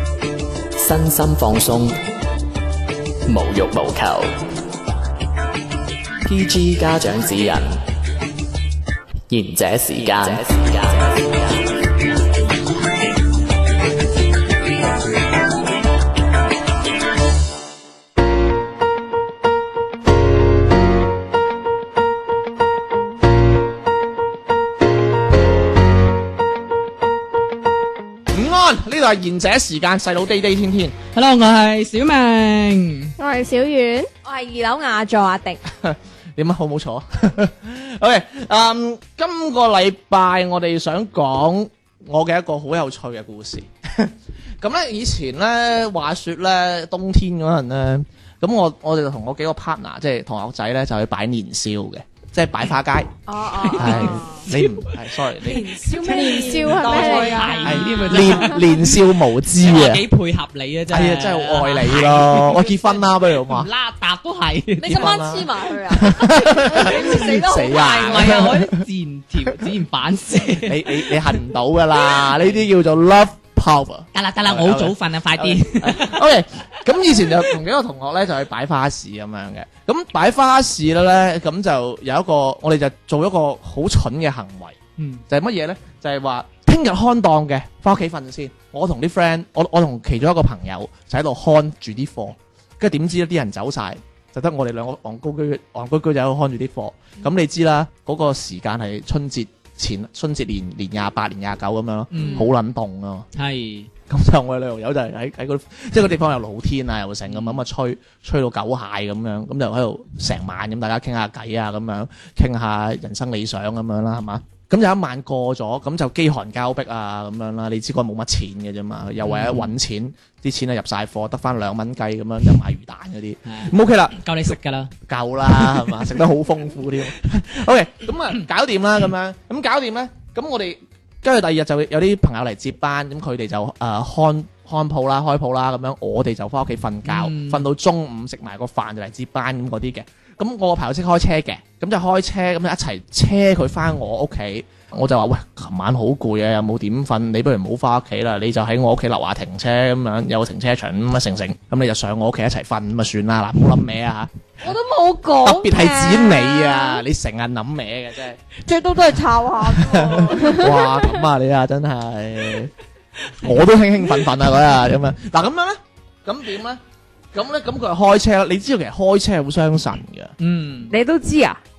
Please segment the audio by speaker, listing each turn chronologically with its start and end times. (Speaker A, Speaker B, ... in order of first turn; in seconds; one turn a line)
Speaker A: 0.8-2.0
Speaker A: 3.3-4.3
Speaker A: 6.3-7.8
Speaker A: 9.3-11.7
Speaker B: 28.3-30.9
Speaker C: 31.1-33.1
Speaker D: 33.2-34.1
Speaker E: 34.2-35.6
Speaker B: 35.8-53.1
Speaker E: 53.3-54.5
Speaker C: 53.6-54.9
Speaker B: 53.8-55.7
Speaker E: 55.5-58.3
Speaker D: 55.9-58.0
Speaker C: 56.0-59.0
Speaker B: 57.6-60.0
Speaker C: 59.6-65.3
Speaker B: 60.9-63.7
Speaker E: 64.8-68.5
Speaker B: 64.9-68.8
Speaker C: 68.0-71.1
Speaker B: 70.7-84.8
Speaker C: 72.4-72.6
Speaker C: 74.1-76.3
Speaker C: 85.0-85.2
Speaker B: 85.3-103.3
Speaker C: 102.1-102.5
Speaker E: 102.2-102.5
Speaker C: 103.3-103.9
Speaker B: 104.1-124.2
Speaker C: 107.3-107.6
Speaker C: 119.2-119.7
Speaker C: 123.5-124.9
Speaker B: 125.1-154.7
Speaker C: 125.5-126.0
Speaker C: 137.1-137.7
Speaker E: 154.6-157.0
Speaker B: 155.4-158.4
Speaker E: 158.7-160.9
Speaker B: 159.7-162.7
Speaker B: 163.4-166.8
Speaker B: 167.3-170.3
Speaker C: 170.4-170.9
Speaker E: 170.9-171.6